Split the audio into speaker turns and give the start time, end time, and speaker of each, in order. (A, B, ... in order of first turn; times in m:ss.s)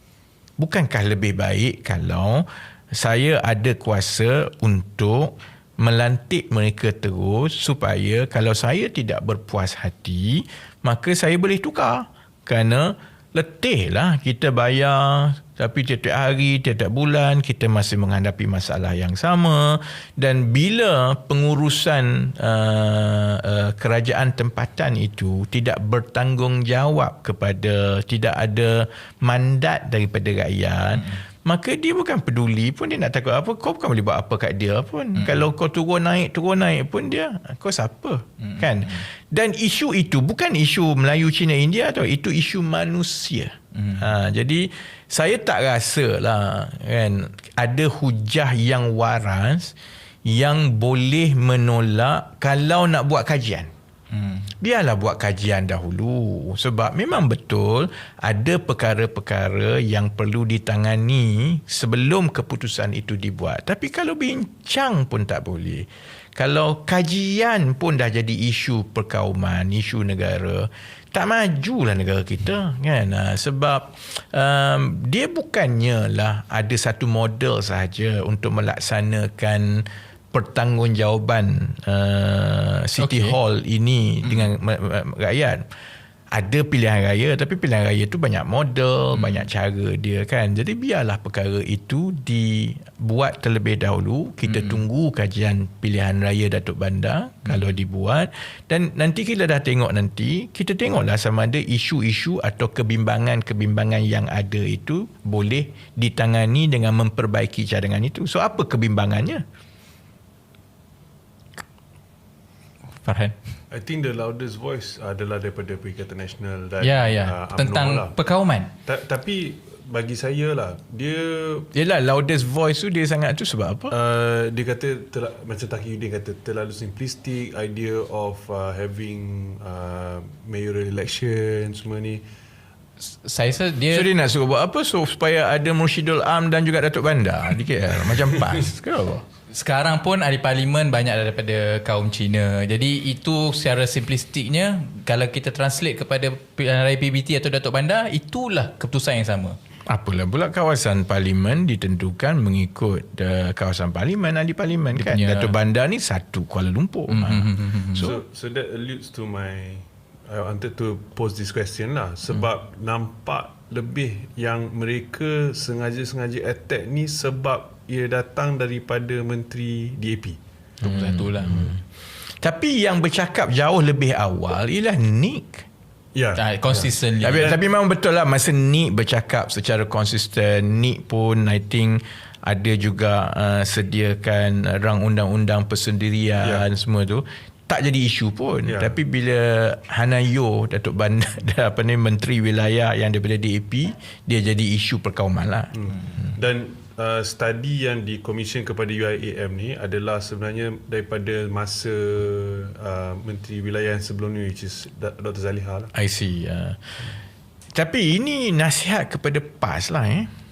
0:00.6-0:49.7 A
0:35.2-0:35.5 B
0:38.4-0:39.0 B
0:43.8-0:44.0 B
0:50.2-0:53.7 A
0:54.1-0:54.5 B
0:54.6-1:25.7 A
1:23.0-1:23.4 B
1:24.2-1:24.5 B
1:26.3-1:49.4 A
1:29.1-1:29.5 B
1:34.5-1:34.8 B
1:53.0-1:53.4 B
1:53.7-1:58.2 C
1:56.8-1:58.7 B
1:58.8-2:01.7 C
2:01.7-2:03.9 A
2:03.9-2:12.2 C
2:13.0-2:14.1 B
2:13.9-2:19.2 A
2:19.5-2:29.6 B
2:29.9-2:38.2 A
2:34.9-2:35.6 B
2:37.1-2:38.1 B
2:38.0-2:50.4 C
2:50.8-2:51.7 B
2:50.8-2:51.8 A
2:52.4-2:55.7 A
2:56.2-2:57.6 C
2:56.4-2:57.6 B
2:57.2-3:15.8 A
3:06.4-3:06.7 C
3:08.7-3:09.0 C
3:15.8-3:25.9 C
3:25.9-3:27.1 A
3:27.7-3:30.3 A